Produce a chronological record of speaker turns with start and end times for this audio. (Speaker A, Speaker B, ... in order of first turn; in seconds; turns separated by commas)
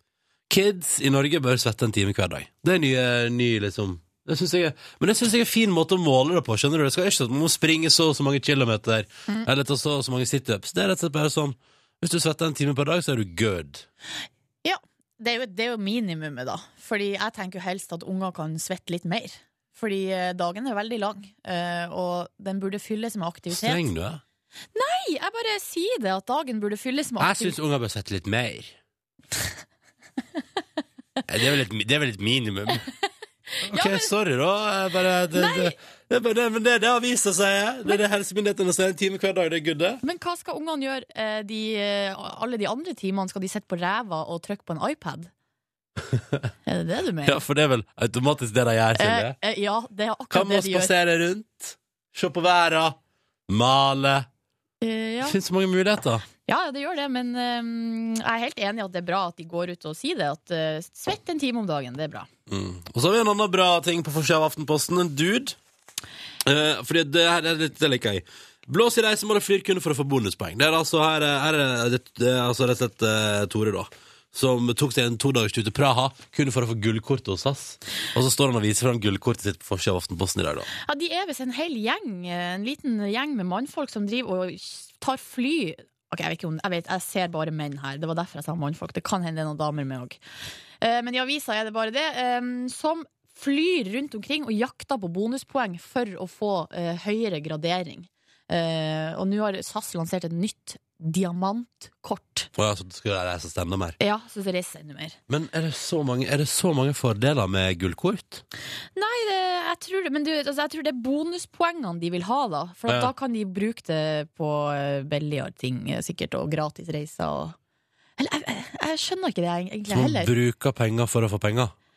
Speaker A: 0.5-13.8, Speaker B: 14.6-23.9, Speaker A: 23.5-24.2, Speaker B: 24.7-27.6, Speaker A: 27.2-28.8, Speaker A: 31.3-32.8, Speaker A: 33.6-40.0, Speaker B: 33.7-34.1, Speaker B: 35.3-35.7, Speaker B: 40.0-45.3, Speaker A: 46.1-46.5, Speaker B: 46.6-47.4, Speaker A: 47.2-49.4, Speaker B: 49.0-50.9, Speaker A: 50.3-54.3, Speaker B: 54.8-55.4, Speaker A: 55.2-56.2, Speaker B: 56.5-62.3, Speaker A: 62.5-65.6, Speaker A: 66.4-80.7, Speaker B: 80.8-90.2, Speaker B: 90.8-102.5, Speaker A: 102.5-104.0, Speaker B: 104.0-105.2, Speaker A: 105.3-108.4, Speaker B: 109.0-117.5, Speaker A: 112.9-113.1, Speaker B: 118.2-120.3, Speaker A: 119.9-121.7